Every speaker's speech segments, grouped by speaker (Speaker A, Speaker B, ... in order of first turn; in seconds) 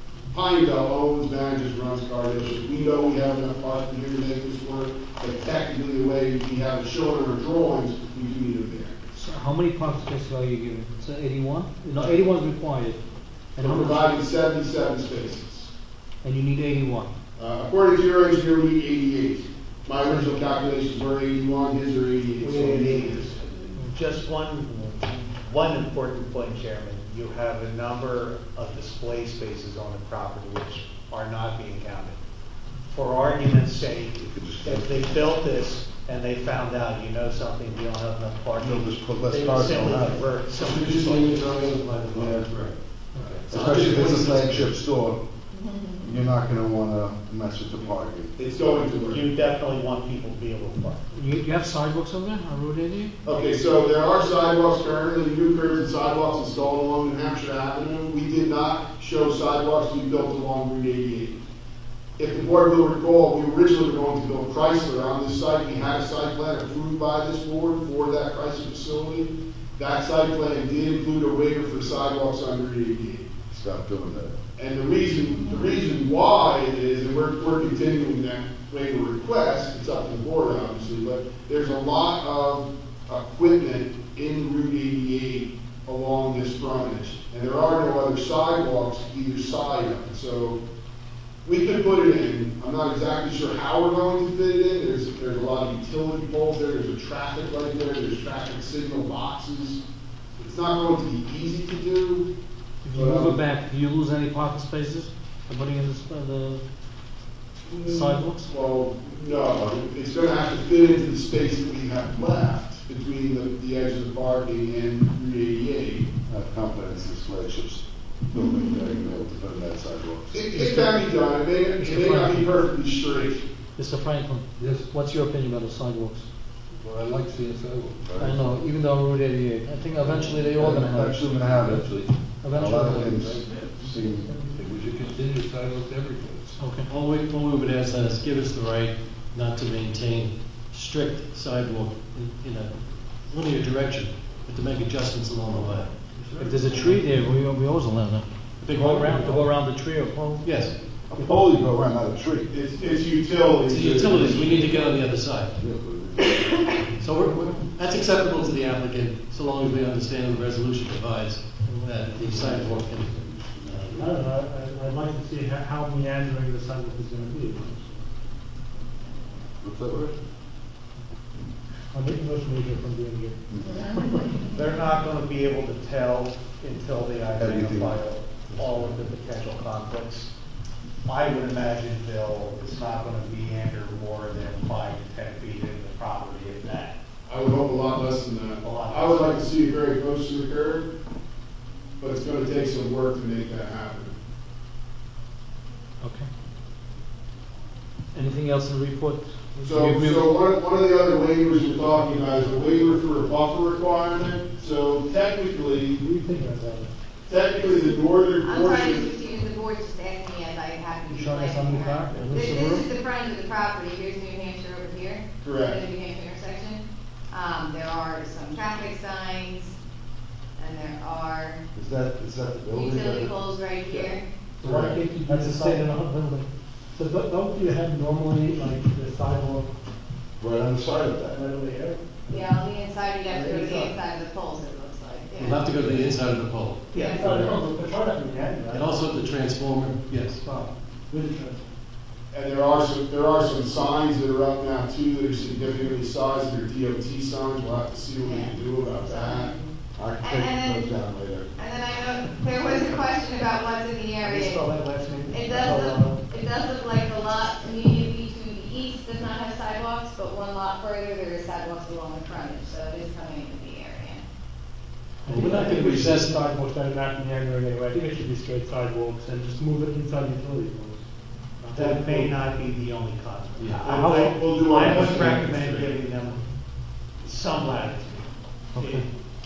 Speaker A: 0.3-9.0, 13.6-15.7, 17.4-23.3, 48.4-49.2, 53.2-61.4, 62.2-73.3, 74.6-90.6, 91.4-99.8, 100.4-102.3, 102.9-103.4, 107.7-116.1, 120.3-123.5, 152.5-154.9, 187.3-190.9, 192.0-194.2, 199.6-206.0, 207.3-209.1, 215.4-215.8, 242.3-249.5, 273.9-275.4
Speaker B: 9.1-13.0, 13.6-14.1, 16.2-17.1, 43.1-43.4, 51.1-53.1, 102.8-106.6, 107.8-108.5, 120.5-121.0, 121.8-122.6, 123.8-126.2, 128.2-131.8, 132.4-133.2, 136.6-136.9, 146.4-150.5, 151.2-151.5, 196.0-196.3, 198.1-200.4, 225.2-225.8, 273.8-274.3, 278.7-279.1
Speaker C: 22.4-32.2, 32.9-41.5, 48.8-51.0, 174.5-180.3, 181.0-186.9, 188.6-189.5, 233.4-233.9, 236.9-237.5, 271.7-276.4, 277.2-278.2, 278.8-279.1
Speaker D: 34.1-35.2, 38.5-40.2, 42.1-42.5, 43.5-45.2, 46.0-48.3, 73.5-74.3, 116.3-120.4, 128.1-128.4, 130.4-131.9, 132.5-134.4, 145.5-145.8, 151.1-152.5, 155.6-156.8, 162.0-164.1, 169.6-170.2, 173.5-174.3, 177.3-178.0, 221.7-223.3, 224.6-225.0, 230.4-231.4, 249.9-251.5
Speaker E: 39.3-39.8, 40.5-44.8, 136.9-147.0, 148.6-149.4, 150.4-150.7, 153.7-155.6, 156.9-164.2, 212.1-212.4, 235.3-236.8, 238.7-240.4, 265.2-266.4, 273.6-274.0, 274.8-275.9
Speaker F: 45.5-46.0, 208.4-219.8, 220.6-221.6, 222.7-224.2, 232.3-235.9, 236.9-237.2, 248.2-251.0, 251.6-254.7, 255.3-264.2
Speaker G: 124.6-124.9, 126.7-128.2, 131.7-132.2, 133.1-136.6
Speaker H: 164.0-168.0, 171.9-173.4, 206.0-206.9, 211.1-212.8, 224.6-229.7, 231.3-232.4, 237.1-238.9, 240.4-241.7, 254.2-256.2, 265.2-271.0, 271.6-272.3